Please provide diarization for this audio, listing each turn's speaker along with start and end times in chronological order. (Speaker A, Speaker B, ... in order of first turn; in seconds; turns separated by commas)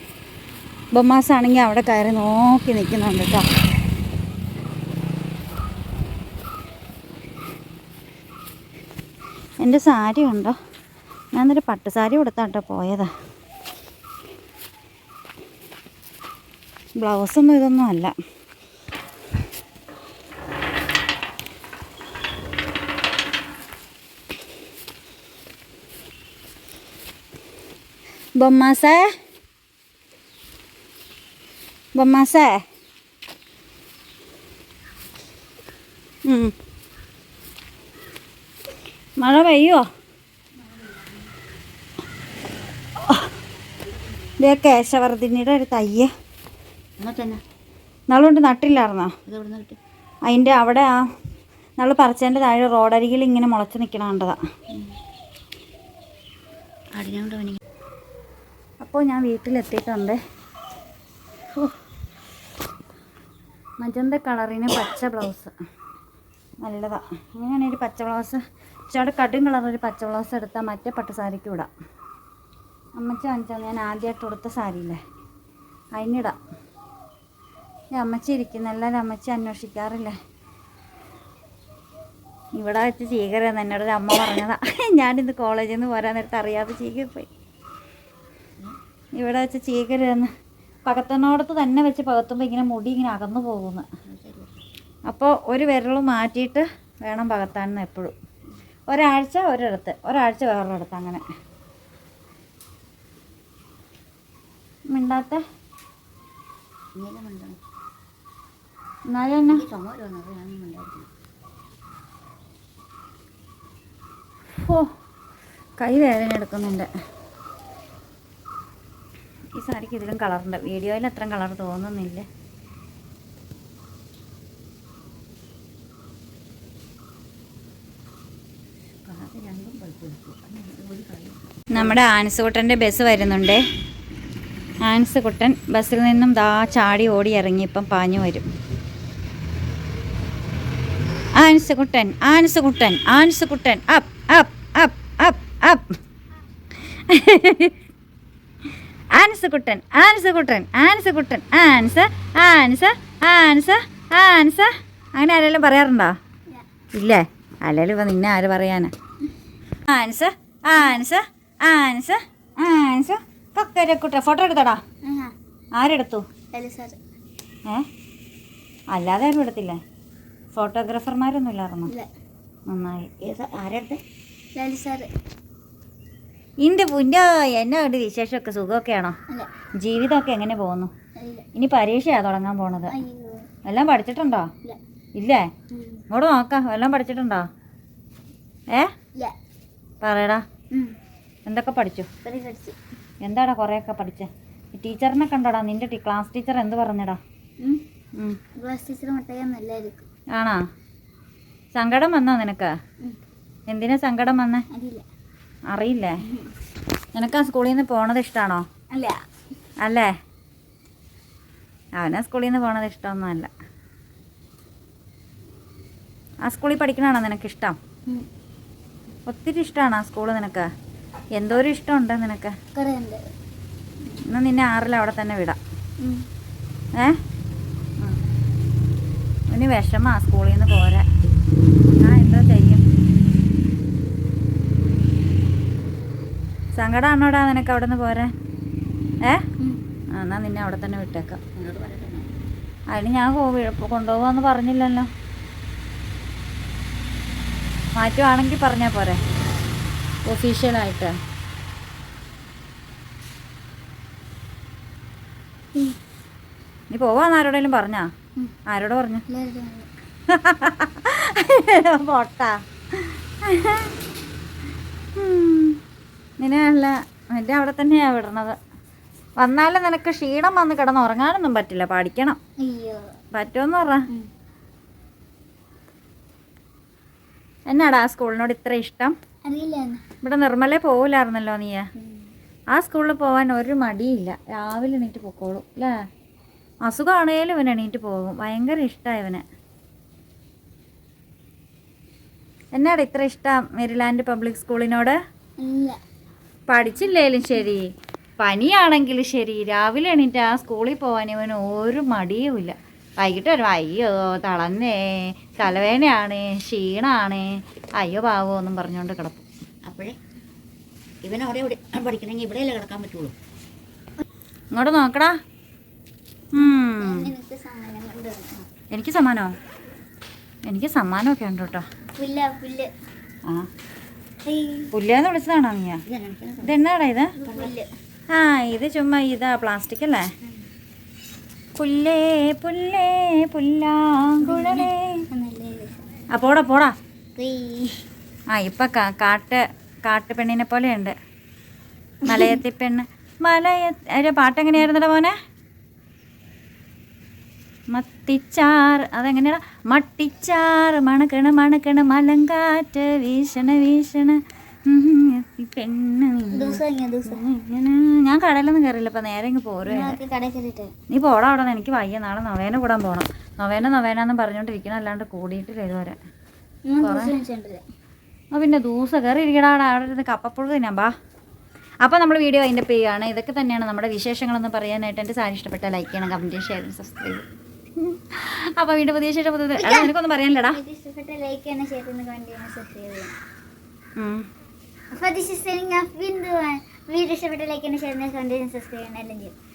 Speaker A: 0.9-3.5, Speaker A: 9.6-10.6, Speaker A: 11.3-13.1, Speaker A: 17.0-18.1, Speaker A: 28.4-29.2, Speaker A: 31.9-32.6, Speaker A: 36.3-36.5, Speaker A: 39.2-39.8, Speaker A: 44.4-46.1, Speaker B: 47.0-47.4, Speaker A: 48.1-49.1, Speaker B: 49.3-49.8, Speaker A: 50.3-51.0, Speaker A: 51.8-54.4, Speaker B: 57.0-57.6, Speaker A: 58.8-60.2, Speaker A: 63.8-65.5, Speaker A: 66.6-71.7, Speaker A: 73.0-75.0, Speaker A: 76.0-76.4, Speaker A: 77.9-80.2, Speaker A: 82.6-87.3, Speaker A: 89.2-90.3, Speaker A: 90.9-93.8, Speaker B: 94.1-94.6, Speaker A: 95.1-98.1, Speaker A: 98.9-101.2, Speaker A: 104.9-105.4, Speaker B: 107.0-107.6, Speaker A: 109.1-109.6, Speaker B: 109.5-111.1, Speaker A: 114.6-114.9, Speaker A: 115.8-116.9, Speaker A: 119.5-122.3, Speaker B: 129.1-132.0, Speaker A: 131.7-133.6, Speaker A: 134.9-138.5, Speaker A: 141.4-146.0, Speaker A: 146.9-147.8, Speaker A: 149.1-156.2, Speaker A: 156.9-158.9, Speaker A: 159.9-164.8, Speaker C: 165.0-165.3, Speaker A: 165.8-166.3, Speaker C: 166.5-167.0, Speaker A: 168.9-169.8, Speaker A: 170.6-171.9, Speaker A: 172.7-173.1, Speaker B: 173.2-174.0, Speaker C: 174.6-175.1, Speaker A: 176.6-179.2, Speaker A: 179.8-180.9, Speaker C: 181.2-181.5, Speaker A: 181.6-182.9, Speaker C: 182.9-183.5, Speaker A: 183.7-184.5, Speaker A: 185.2-185.5, Speaker C: 185.7-186.0, Speaker A: 186.1-187.5, Speaker A: 190.0-190.4, Speaker A: 191.5-192.1, Speaker C: 192.2-192.8, Speaker A: 193.2-197.2, Speaker C: 198.6-200.1, Speaker A: 200.3-200.7, Speaker A: 201.8-202.8, Speaker A: 203.7-204.7, Speaker C: 204.7-205.0, Speaker A: 205.7-206.2, Speaker C: 206.2-206.5, Speaker A: 207.1-208.7, Speaker C: 208.9-209.2, Speaker A: 209.8-210.1, Speaker A: 212.0-213.5, Speaker A: 216.4-217.8, Speaker A: 219.3-220.7, Speaker A: 221.4-222.6, Speaker C: 222.8-223.2, Speaker A: 224.3-225.6, Speaker C: 226.0-226.3, Speaker A: 229.5-231.1, Speaker A: 232.0-232.8, Speaker A: 236.8-238.3, Speaker A: 240.1-241.4, Speaker B: 241.6-242.3, Speaker A: 242.9-245.1, Speaker A: 248.0-249.2, Speaker A: 250.2-251.2, Speaker A: 256.9-258.1, Speaker A: 258.7-259.2, Speaker C: 259.3-259.9, Speaker A: 260.3-263.9, Speaker A: 265.2-265.8, Speaker A: 266.4-268.6, Speaker A: 269.4-272.4, Speaker C: 272.6-273.1, Speaker A: 273.3-274.1, Speaker A: 277.7-279.1, Speaker C: 279.4-280.0, Speaker A: 280.2-281.9, Speaker C: 282.0-282.3, Speaker A: 282.7-286.0, Speaker A: 286.9-289.4, Speaker A: 292.7-295.2, Speaker C: 295.6-296.0, Speaker A: 296.7-297.9, Speaker A: 298.4-309.4, Speaker B: 309.9-310.2, Speaker B: 311.2-313.3, Speaker A: 314.7-315.4, Speaker A: 316.5-317.3, Speaker C: 316.6-318.6, Speaker A: 318.9-319.5, Speaker A: 320.7-321.9, Speaker C: 322.1-322.9, Speaker C: 324.5-324.9, Speaker A: 324.9-326.0, Speaker B: 326.1-326.8, Speaker A: 326.6-327.3, Speaker C: 327.4-327.9, Speaker B: 327.4-327.7, Speaker A: 328.3-330.3, Speaker A: 331.8-335.3, Speaker C: 334.4-335.9, Speaker A: 336.3-336.9, Speaker C: 337.4-338.0, Speaker A: 338.5-341.2, Speaker C: 342.2-342.6, Speaker A: 342.2-345.4, Speaker A: 347.9-360.2, Speaker C: 356.5-357.4, Speaker C: 359.9-360.9, Speaker A: 361.1-366.2, Speaker C: 366.9-367.8, Speaker A: 367.0-367.3, Speaker A: 368.5-371.1, Speaker A: 372.0-377.4, Speaker A: 378.0-380.8, Speaker C: 379.8-380.1, Speaker C: 380.7-383.4, Speaker A: 384.2-384.5, Speaker C: 385.1-389.5